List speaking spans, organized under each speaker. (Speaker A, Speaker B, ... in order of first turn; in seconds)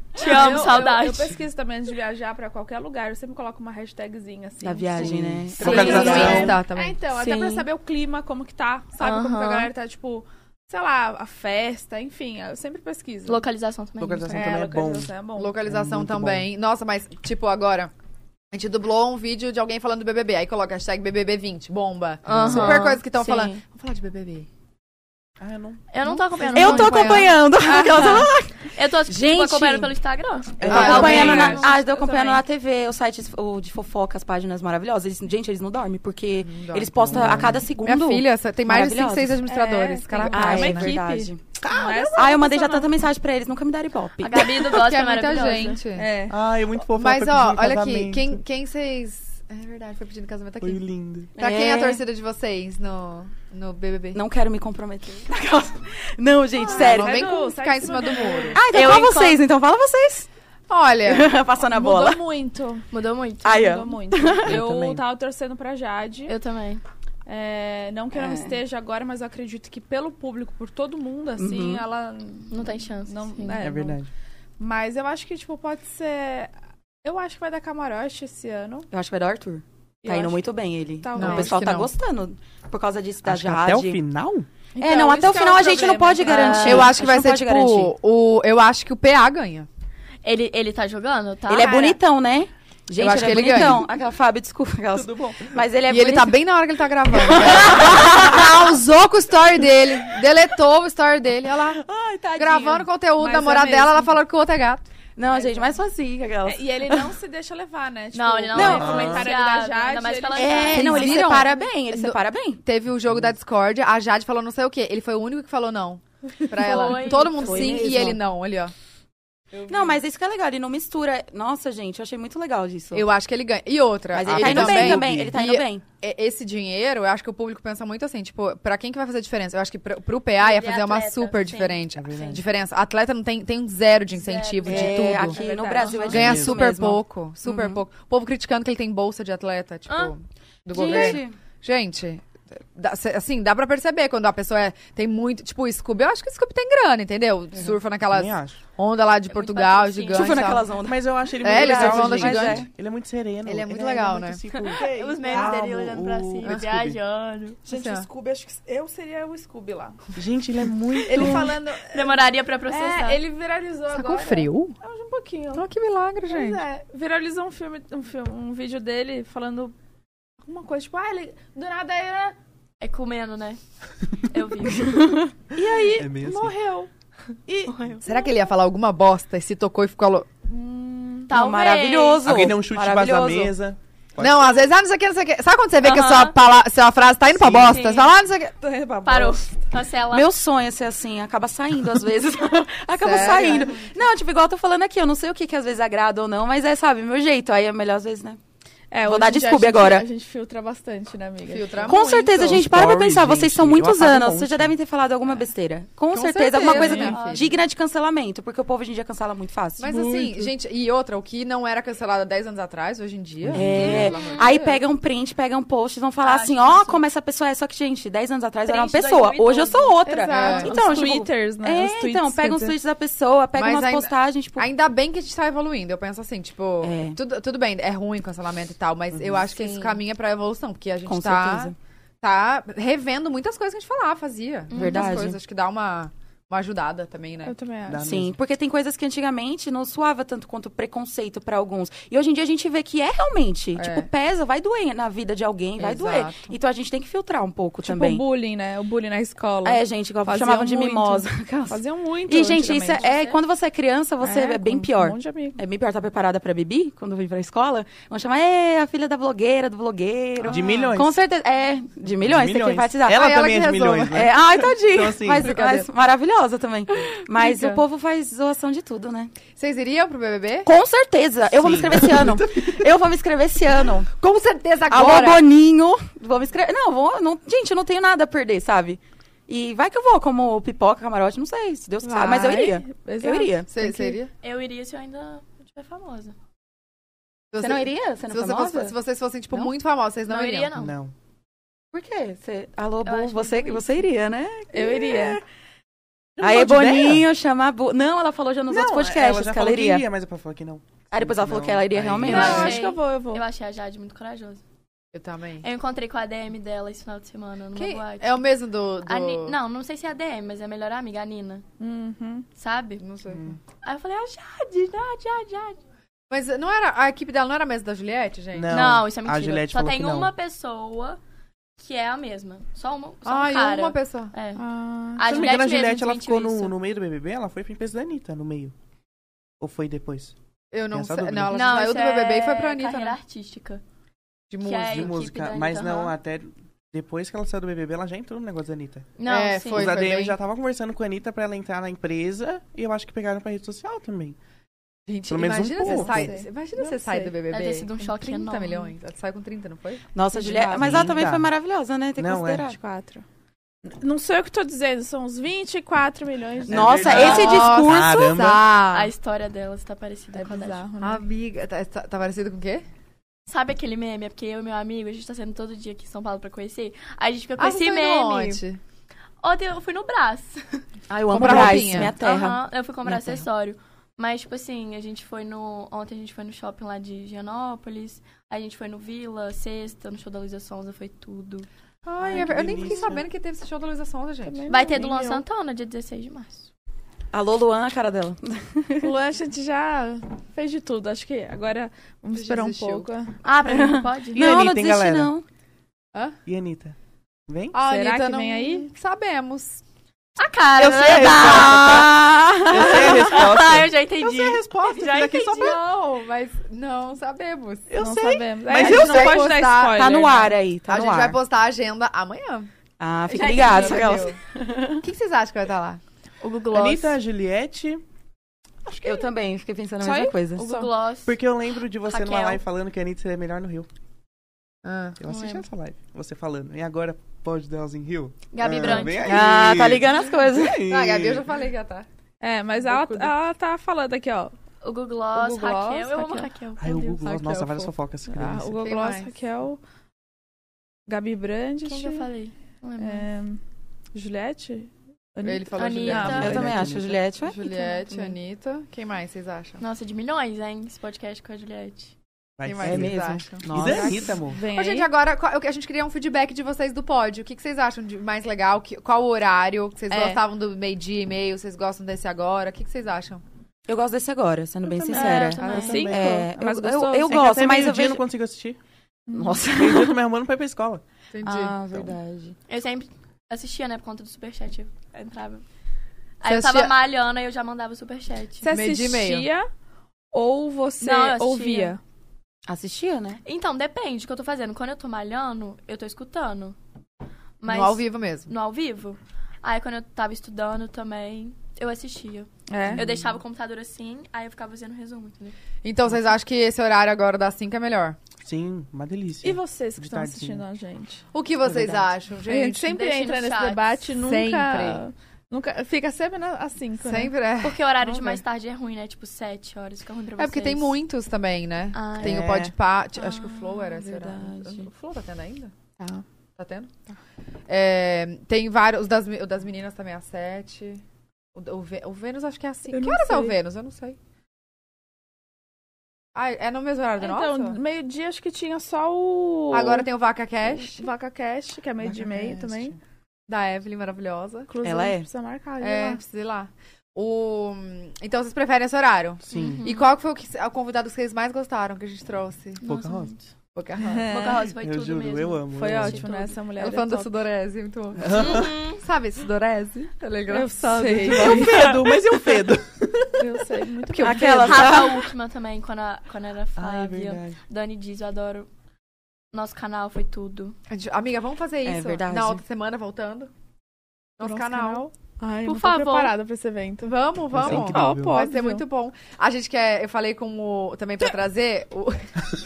Speaker A: 0.1-1.3, 5.7-6.1, 7.1-7.7, 9.0-9.7, 13.2-14.6, 22.3-23.6, 25.9-31.7, 44.2-45.8, 51.4-51.8, 58.7-59.4, 62.9-63.7, 66.3-66.8, 72.5-73.7, 86.2-86.9, 90.2-91.9, 108.1-111.4, 116.6-117.8, 130.4-131.8, 134.1-136.2, 139.9-140.1, 149.3-150.6, 154.5-157.6, 161.1-163.2, 172.8-173.6, 174.2-175.1, 177.6-178.1, 181.3-182.2, 185.8-186.3, 187.5-188.1, 189.1-190.3, 206.9-207.6, 213.8-214.6, 216.2-217.0, 218.6-220.8, 234.7-235.2, 284.4-286.3, 290.3-290.9, 293.1-293.9, 302.3-304.6, 305.6-308.4, 309.1-311.6, 312.6-313.0, 313.8-315.8, 318.7-321.2, 321.8-324.6, 325.1-326.8, 331.5-333.8, 334.6-336.1, 339.2-340.0, 347.5-348.9, 357.1-357.6, 358.9-360.8, 363.5-368.6, 369.4-370.8, 371.4-381.7, 384.7-386.7, 393.4-394.4, 400.4-402.1, 402.7-405.8, 413.4-414.1, 416.4-417.2, 420.6-421.4, 422.0-422.6, 425.3-425.6, 428.5-429.4, 434.8-437.2, 441.8-443.3, 445.7-446.5, 449.8-452.1, 465.1-466.1, 472.7-475.6, 476.4-478.8, 481.0-482.0, 483.4-486.8, 487.6-495.6, 502.8-504.1, 507.6-511.0, 511.9-512.4, 539.5-540.1, 542.8-543.5, 544.3-546.6, 548.3-549.0, 554.2-558.7, 559.5-560.7, 565.6-566.3
Speaker B: 0.1-13.4, 14.3-15.6, 27.7-28.2, 30.7-32.4, 39.5-42.9, 46.0-46.4, 56.7-58.6, 61.6-62.9, 63.5-66.3, 67.2-74.0, 74.6-76.5, 77.0-78.9, 80.0-80.4, 81.0-81.7, 84.7-86.9, 103.2-104.1, 105.3-105.7, 106.4-111.3, 116.7-117.0, 119.5-119.9, 134.9-136.2, 157.7-160.0, 161.0-165.6, 166.3-169.7, 170.4-172.3, 175.6-176.9, 177.5-177.9, 180.4-181.3, 188.6-189.6, 198.9-202.0, 206.5-207.2, 209.9-210.5, 220.1-222.8, 237.4-238.1, 247.8-253.3, 254.2-255.6, 282.0-284.2, 294.7-295.4, 302.2-303.4, 311.8-312.4, 324.6-325.4, 345.8-347.3, 350.3-351.0, 352.7-353.2, 353.9-357.5, 360.3-361.2, 384.4-385.4, 389.0-393.4, 397.8-398.9, 408.0-410.5, 413.4-414.1, 420.0-420.9, 432.4-434.5, 435.4-436.5, 438.3-439.8, 441.1-442.3, 443.0-443.6, 444.1-446.6, 448.1-448.3, 453.8-455.1, 460.1-460.4, 465.0-467.4, 469.3-469.7, 478.6-479.7, 480.3-482.0, 492.7-493.1, 499.4-501.2, 502.5-507.3, 513.1-514.9, 516.0-516.2, 522.9-523.6, 527.2-530.1, 530.6-533.0, 534.7-536.2, 543.9-544.6, 545.7-547.3, 550.5-552.2, 553.4-555.1, 564.4-568.9
Speaker C: 4.6-6.6, 26.6-29.9, 30.6-39.4, 40.3-41.6, 42.1-44.8, 51.4-52.0, 54.1-57.2, 58.5-60.3, 61.0-62.2, 63.4-64.6, 68.1-68.6, 71.4-71.8, 78.9-84.0, 84.8-87.9, 91.5-96.4, 97.3-98.2, 101.6-102.9, 105.2-107.1, 108.5-108.9, 110.3-112.6, 117.2-118.2, 119.7-123.1, 124.1-125.8, 134.6-137.8, 140.7-141.4, 150.1-152.7, 174.8-175.1, 181.3-183.6, 190.1-198.4, 199.0-200.1, 201.9-210.0, 213.5-224.7, 226.8-227.2, 229.5-230.0, 231.1-231.7, 234.7-235.4, 238.0-248.2, 249.6-263.3, 264.1-269.3, 270.6-274.1, 274.9-283.7, 287.6-288.9, 291.9-295.4, 296.4-300.1, 301.1-302.8, 350.1-352.8, 356.6-358.6, 371.1-373.4, 387.3-389.1, 393.6-395.4, 401.1-403.3, 409.9-411.4, 413.0-415.0, 419.0-420.7, 429.2-430.8, 446.3-447.7, 452.8-454.4, 463.9-468.2, 469.3-470.2, 471.4-472.6, 482.7-483.4, 501.6-502.1, 534.8-535.3, 554.2-555.3, 561.8-562.6
Speaker D: 5.0-6.6, 14.0-16.5, 22.3-22.8, 25.4-25.8, 30.6-31.6, 36.9-37.7, 41.6-42.2, 46.3-48.4, 50.6-51.3, 64.4-65.0, 73.6-74.1, 83.2-84.5, 94.9-95.5, 108.6-109.3, 113.1-113.3, 124.2-125.4, 131.9-132.4, 136.1-136.6, 148.1-148.6, 150.8-157.0, 160.2-161.6, 175.9-176.6, 182.2-184.6, 187.4-187.8, 202.3-204.8, 213.4-214.1, 237.9-238.4, 260.4-261.2, 262.2-265.5, 271.5-272.9, 290.8-291.1, 296.4-297.2, 298.7-302.8, 313.3-313.6, 318.5-320.3, 325.2-328.7, 329.6-330.3, 330.9-331.6, 334.8-339.1, 339.7-344.4, 345.3-346.3, 350.8-351.5, 352.2-352.7, 356.7-358.6, 382.2-383.2, 394.3-395.3, 396.4-396.9, 397.5-397.7, 400.8-402.1, 402.6-405.8, 407.9-409.5, 416.7-418.0, 421.3-423.9, 425.2-431.5, 436.8-438.8, 446.3-447.2, 452.6-454.6, 465.8-466.4, 467.3-468.8, 469.7-471.0, 498.4-500.6, 512.2-512.7, 532.0-533.0, 539.5-539.9, 542.8-543.3, 544.5-546.3, 548.2-548.8, 551.3-553.6, 556.8-557.6, 567.5-568.4
Speaker E: 5.6-7.0, 15.3-17.9, 18.5-24.5, 26.1-27.4, 30.7-31.2, 36.4-41.0, 44.7-46.1, 46.8-50.8, 51.3-54.2, 56.6-58.6, 60.7-61.3, 81.1-81.9, 86.6-89.7, 91.6-91.9, 93.0-93.8, 95.9-101.8, 102.4-104.9, 110.7-118.7, 122.9-135.4, 136.1-150.7, 151.4-152.7, 153.4-154.4, 157.7-158.1, 163.9-164.8, 165.5-166.6, 178.0-180.4, 184.2-188.5, 193.0-193.8, 201.4-202.6, 206.1-207.6, 209.8-214.8, 220.3-220.8, 223.6-237.6, 243.8-244.1, 245.8-246.6, 263.1-264.2, 265.4-265.9, 267.4-267.8, 269.6-270.7, 274.2-275.4, 283.7-284.3, 287.5-290.7, 305.1-305.6, 307.7-309.6, 313.0-313.4, 316.3-318.9, 323.2-324.3, 330.7-333.2, 334.5-335.1, 339.3-340.4, 345.1-351.0, 357.0-359.1, 361.0-362.8, 367.6-368.8, 371.3-372.1, 382.1-384.6, 392.3-393.1, 397.7-399.8, 405.6-407.9, 408.7-410.1, 410.9-412.7, 413.3-414.4, 415.0-416.0, 424.8-425.2, 430.8-432.1, 432.8-433.3, 437.2-439.3, 445.4-446.7, 447.4-449.8, 452.6-463.4, 465.6-466.1, 471.3-471.7, 476.4-476.9, 478.7-479.5, 487.7-488.5, 495.8-498.2, 501.3-502.9, 504.1-505.0, 507.0-508.3, 510.4-515.7, 516.5-516.9, 517.7-521.0, 521.5-524.2, 526.3-527.8, 529.7-531.1, 533.5-534.7, 535.8-542.8, 543.7-544.3, 546.8-551.8, 560.9-563.5, 564.4-565.1, 567.0-572.2